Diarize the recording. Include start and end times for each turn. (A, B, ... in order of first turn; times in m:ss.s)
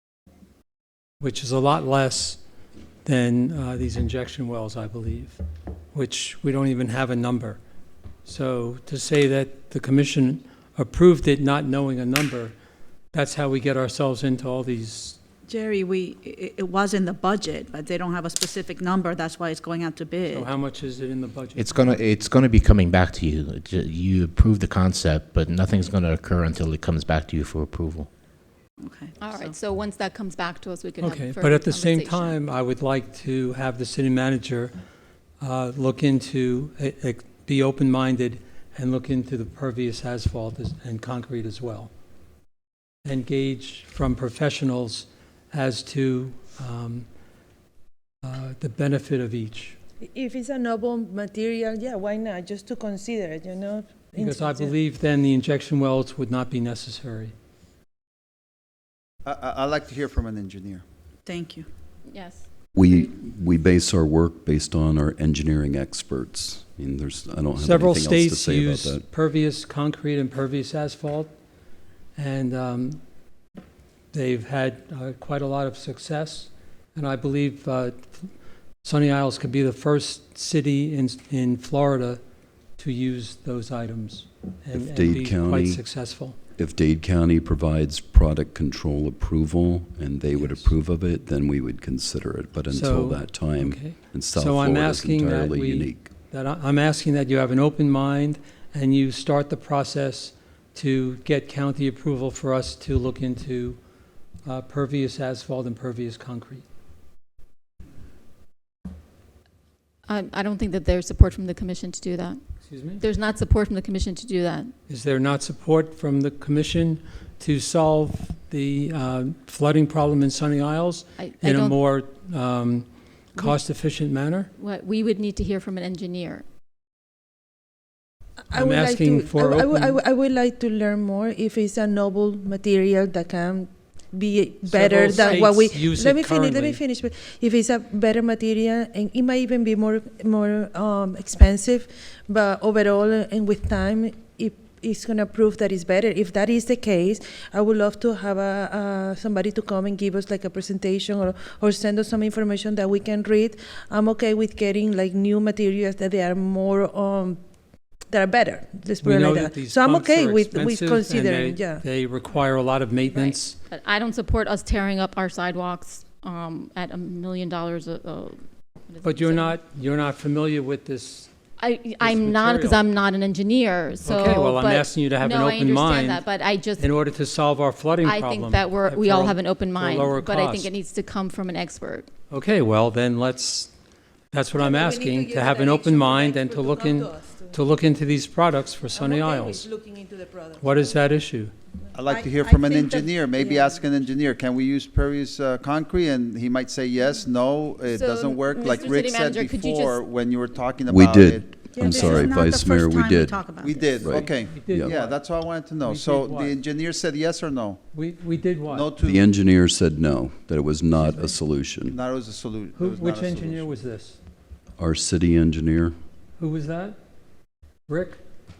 0:01.2-0:02.4 A
0:03.0-0:05.4 A
0:05.9-0:07.6 A
0:08.2-0:12.5 A
0:13.1-0:15.2 A
0:15.5-0:20.5 B
0:20.3-0:21.7 A
0:21.6-0:28.1 C
0:28.8-0:29.5 B
0:29.2-0:32.4 D
0:31.0-0:34.7 A
0:35.4-0:41.9 A
0:43.0-0:47.1 A
0:48.2-0:49.8 A
0:50.0-0:54.7 E
0:54.1-0:57.3 A
0:59.2-1:00.8 F
1:01.2-1:01.7 B
1:02.1-1:03.1 D
1:02.7-1:09.0 G
1:07.6-1:11.3 A
1:12.2-1:13.0 A
1:14.1-1:18.3 A
1:18.8-1:22.2 A
1:22.8-1:26.4 A
1:24.7-1:25.8 G
1:26.6-1:36.1 G
1:30.4-1:30.7 A
1:32.7-1:43.8 A
1:44.4-1:46.6 A
1:50.1-1:54.7 D
1:52.6-1:53.0 A
1:54.9-2:04.5 A
2:01.2-2:01.8 D
2:04.6-2:06.4 D
2:08.5-2:37.4 E
2:08.5-2:10.0 A
2:14.7-2:16.8 A
2:15.2-2:15.4 D
2:38.1-2:41.8 E
2:39.0-2:43.6 A
2:43.1-2:49.6 D
2:49.0-2:51.3 A
2:51.6-2:57.0 D
2:52.0-2:52.8 A
2:54.0-2:56.2 A
2:56.8-3:00.7 A
2:58.0-3:02.1 D
3:02.3-3:03.7 A
3:04.3-3:09.7 A
3:04.6-3:07.6 E
3:08.9-3:11.0 E
3:10.6-3:11.5 A
3:11.9-3:22.4 F
3:12.0-3:13.8 B
3:17.9-3:20.0 D
3:20.9-3:23.4 G
3:21.8-3:23.9 B
3:23.6-3:27.8 F
3:24.0-3:25.0 G
3:24.1-3:26.6 A
3:27.9-3:28.9 A
3:28.7-3:29.2 F
3:29.0-3:32.0 G
3:31.8-3:33.8 F
3:32.8-3:34.2 A
3:34.8-3:35.9 G
3:36.4-3:37.0 A
3:37.9-3:38.2 A